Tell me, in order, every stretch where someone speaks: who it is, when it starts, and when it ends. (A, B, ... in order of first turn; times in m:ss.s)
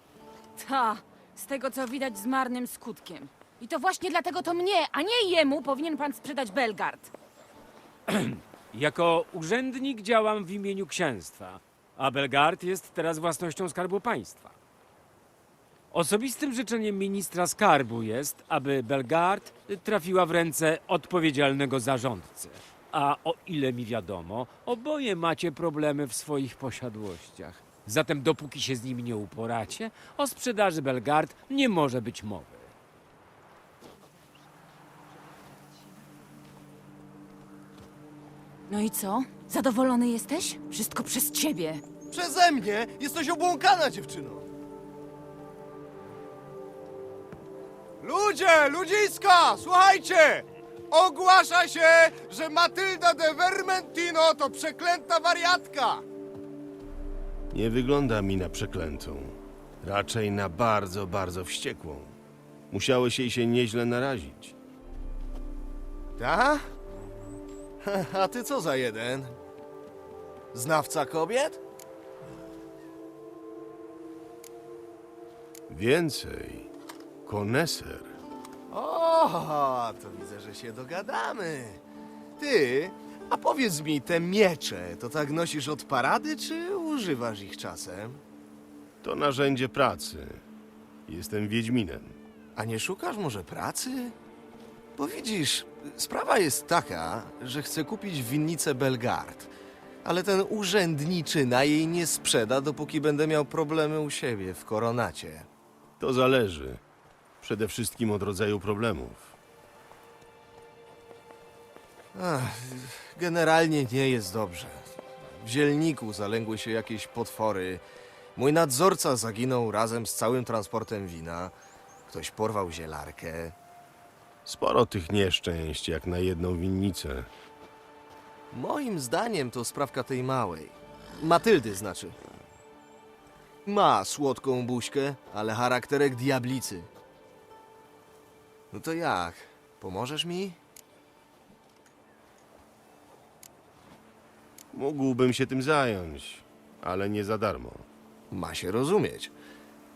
0:00.6-0:07.1 A
0:08.1-0:14.5 B
0:15.9-0:32.7 B
0:38.7-0:41.8 A
0:42.1-0:44.5 C
0:48.0-0:56.0 C
0:57.5-1:02.1 D
1:02.7-1:04.5 D
1:06.2-1:06.7 C
1:07.8-1:09.4 C
1:10.5-1:11.6 C
1:15.7-1:16.7 D
1:17.2-1:18.2 D
1:18.7-1:21.8 C
1:22.4-1:28.2 C
1:29.0-1:30.4 D
1:31.1-1:32.2 D
1:32.6-1:34.1 C
1:35.0-1:39.5 C
1:40.0-1:45.5 C
1:46.0-1:46.8 D
1:47.4-1:49.3 D
1:52.1-1:54.9 C
1:55.4-1:57.8 C
1:58.3-2:01.5 C
2:02.1-2:03.5 C
2:04.4-2:07.3 D
2:08.5-2:12.2 C
2:13.6-2:16.9 C
2:18.7-2:20.6 C
2:24.7-2:27.9 D
2:28.3-2:29.3 C